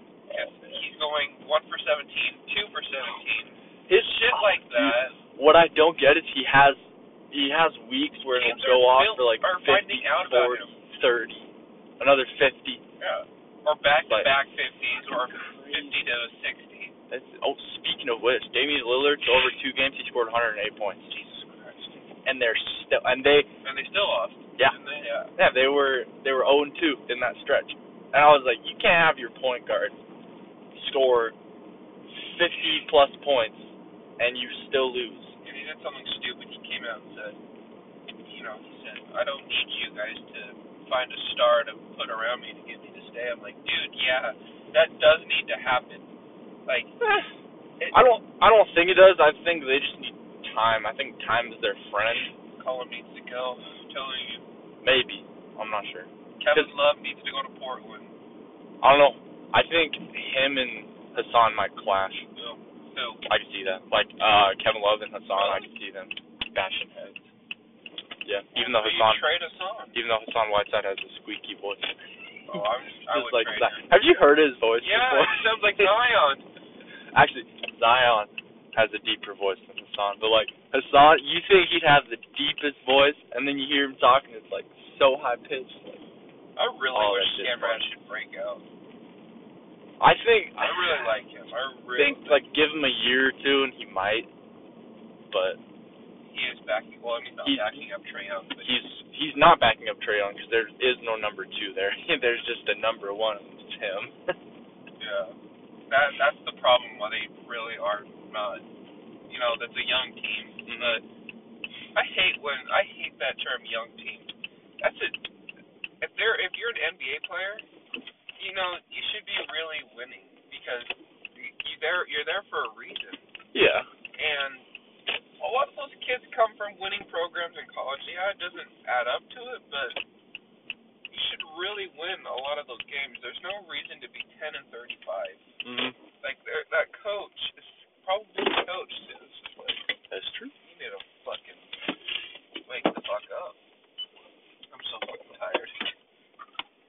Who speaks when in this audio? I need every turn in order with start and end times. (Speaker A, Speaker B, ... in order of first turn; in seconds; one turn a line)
Speaker A: 0.3-0.8
Speaker B: 0.3-5.2
Speaker A: 3.9-12.8
Speaker B: 8.3-10.8
Speaker B: 13.0-16.9
Speaker A: 14.1-14.3
Speaker A: 15.1-16.0
Speaker A: 17.1-21.1
Speaker B: 21.0-22.1
Speaker A: 22.2-23.5
Speaker B: 23.6-25.3
Speaker A: 25.3-30.0
Speaker A: 30.7-31.4
Speaker A: 32.1-35.4
Speaker B: 32.5-32.8
Speaker B: 35.4-37.4
Speaker B: 38.2-46.1
Speaker B: 46.6-46.9
Speaker A: 47.0-47.2
Speaker A: 47.9-52.3
Speaker B: 52.5-54.4
Speaker A: 54.8-56.7
Speaker B: 56.4-58.1
Speaker A: 58.8-62.3
Speaker B: 62.3-63.2
Speaker A: 63.3-67.2
Speaker B: 65.3-65.7
Speaker A: 68.2-69.3
Speaker B: 68.5-70.0
Speaker A: 69.9-72.0
Speaker B: 72.5-73.9
Speaker A: 73.1-75.9
Speaker B: 74.8-76.4
Speaker A: 77.1-86.0
Speaker B: 86.5-88.6
Speaker A: 86.9-87.8
Speaker A: 90.0-91.1
Speaker B: 90.6-92.5
Speaker A: 92.0-94.3
Speaker A: 95.3-95.6
Speaker B: 96.3-98.8
Speaker A: 97.4-97.9
Speaker A: 98.6-104.3
Speaker B: 105.0-105.3
Speaker B: 105.9-108.6
Speaker B: 109.3-111.0
Speaker A: 110.7-111.0
Speaker B: 111.9-115.2
Speaker B: 116.0-117.7
Speaker B: 118.4-123.3
Speaker A: 123.5-123.9
Speaker B: 124.1-124.7
Speaker B: 125.4-130.0
Speaker B: 131.1-135.4
Speaker A: 135.6-135.9
Speaker B: 136.2-139.9
Speaker A: 140.1-140.5
Speaker B: 140.6-141.7
Speaker B: 142.6-143.6
Speaker B: 144.7-145.9